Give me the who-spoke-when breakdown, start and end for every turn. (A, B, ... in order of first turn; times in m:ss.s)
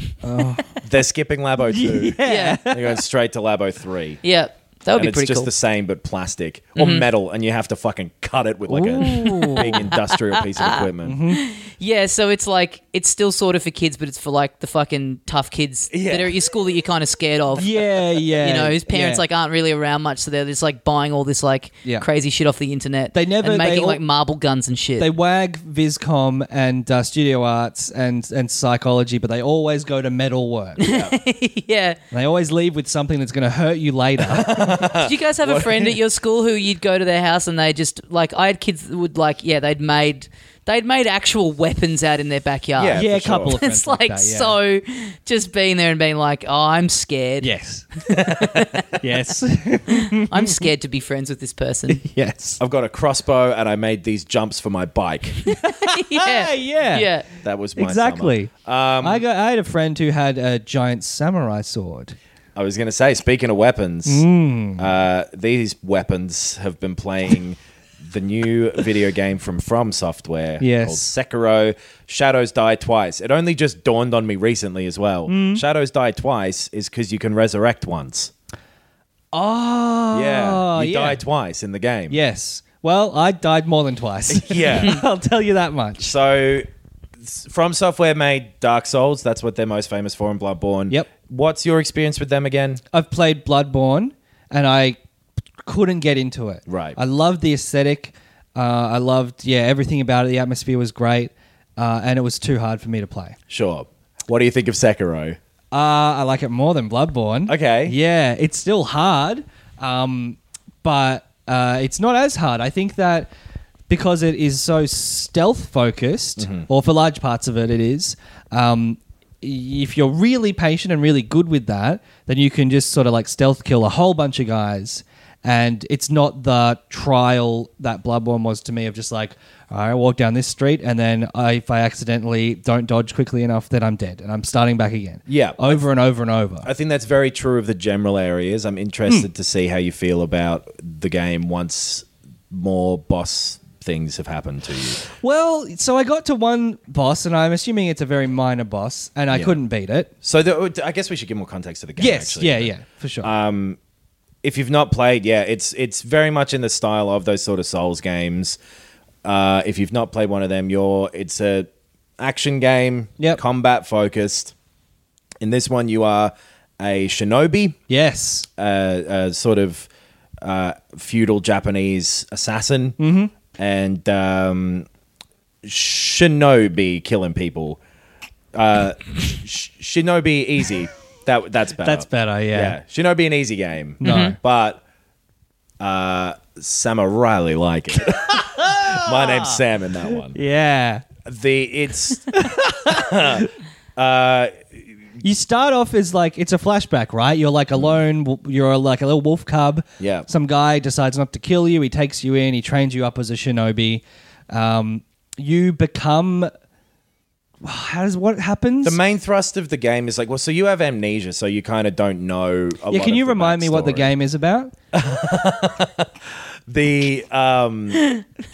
0:00.2-0:00.8 A
0:00.8-0:04.2 B
0:01.7-0:03.0 A
0:02.2-0:02.6 C
0:04.2-0:05.5 C
0:04.9-0:11.2 B
0:06.8-0:07.1 C
0:08.7-0:09.8 A
0:09.0-0:17.7 C
0:11.0-0:11.4 A
0:15.9-0:16.4 B
0:17.6-0:19.2 A
0:18.4-0:25.1 C
0:23.1-0:24.0 A
0:25.0-0:30.8 A
0:30.8-0:32.0 C
0:30.8-0:31.2 B
0:32.1-0:34.8 A
0:34.2-0:36.0 B
0:34.9-0:47.5 C
0:42.8-0:43.6 B
0:42.9-0:44.6 A
0:47.4-0:47.9 A
0:48.1-0:49.0 C
0:48.1-0:48.7 B
0:49.0-0:50.6 A
0:49.9-0:52.0 C
0:51.9-0:52.6 A
0:52.6-0:55.5 B
0:55.5-0:57.3 C
0:55.6-0:57.1 A
0:57.4-0:59.2 B
0:57.8-0:58.5 A
0:59.0-1:02.2 A
1:02.6-1:04.2 B
1:04.1-1:04.9 A
1:04.8-1:18.3 B
1:10.6-1:11.0 A
1:15.3-1:15.6 A
1:19.3-1:21.2 A
1:20.1-1:22.2 B
1:22.1-1:26.1 A
1:24.3-1:25.0 B
1:26.0-1:26.7 B
1:27.2-1:32.8 B
1:32.9-1:35.0 A
1:35.6-1:43.4 A
1:36.7-1:37.0 B
1:43.5-1:45.4 B
1:45.7-1:53.3 A
1:47.5-1:48.0 B
1:53.9-2:16.7 A
1:56.4-1:56.7 B
2:15.3-2:15.9 B
2:16.6-2:25.0 B
2:25.1-2:30.1 A
2:29.3-2:29.6 B
2:30.2-2:33.8 B
2:32.0-2:33.3 A
2:34.4-2:38.6 B
2:39.2-2:44.5 B
2:45.4-2:47.8 B
2:47.9-2:48.5 A
2:48.6-2:49.9 B
2:50.4-2:53.0 B
2:53.0-2:53.3 A
2:53.5-2:54.9 B
2:55.6-2:57.8 B
2:58.5-3:04.8 B
3:01.8-3:02.8 A
3:04.0-3:04.4 A
3:04.0-3:04.4 C
3:05.8-3:10.4 B
3:08.4-3:09.6 A
3:10.3-3:11.1 A
3:11.2-3:14.6 B
3:12.4-3:13.5 A
3:15.2-3:26.5 A
3:20.0-3:20.3 B
3:27.6-3:29.0 A
3:28.8-3:34.1 B
3:32.9-3:34.7 A
3:34.9-3:38.1 B